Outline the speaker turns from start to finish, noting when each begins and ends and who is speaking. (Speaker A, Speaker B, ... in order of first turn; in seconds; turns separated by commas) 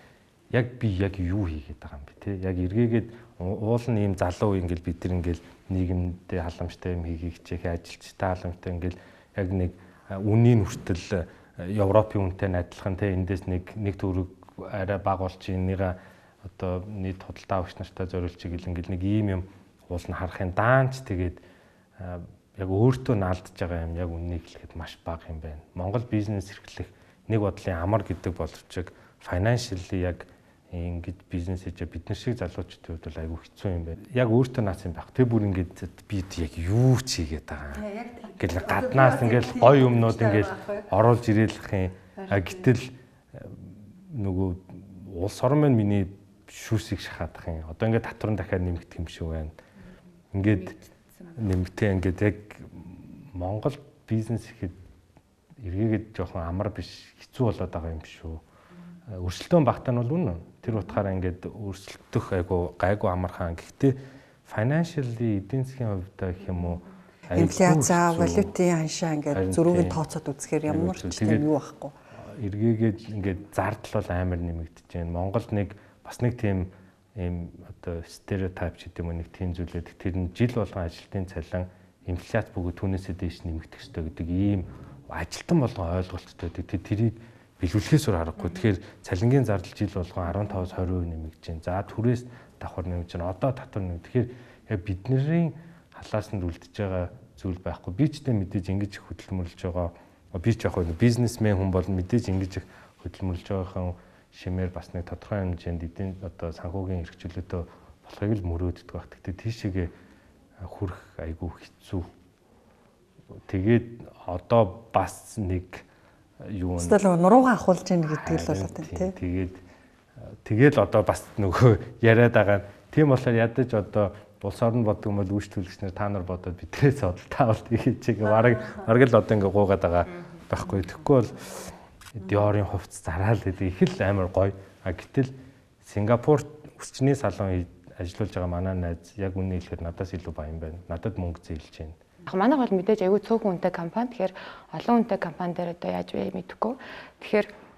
Speaker A: 0.5-21.4, Speaker A: 22.0-49.5, Speaker B: 37.9-40.0, Speaker A: 50.3-50.8, Speaker A: 51.3-54.8, Speaker A: 55.5-58.4, Speaker A: 59.1-68.5, Speaker B: 67.3-71.9, Speaker A: 69.3-70.0, Speaker A: 70.7-71.5, Speaker A: 72.1-109.9, Speaker A: 110.6-112.1, Speaker A: 113.4-115.8, Speaker A: 116.4-117.0, Speaker B: 116.8-119.2, Speaker A: 118.1-119.6, Speaker A: 120.3-142.0, Speaker C: 142.2-147.5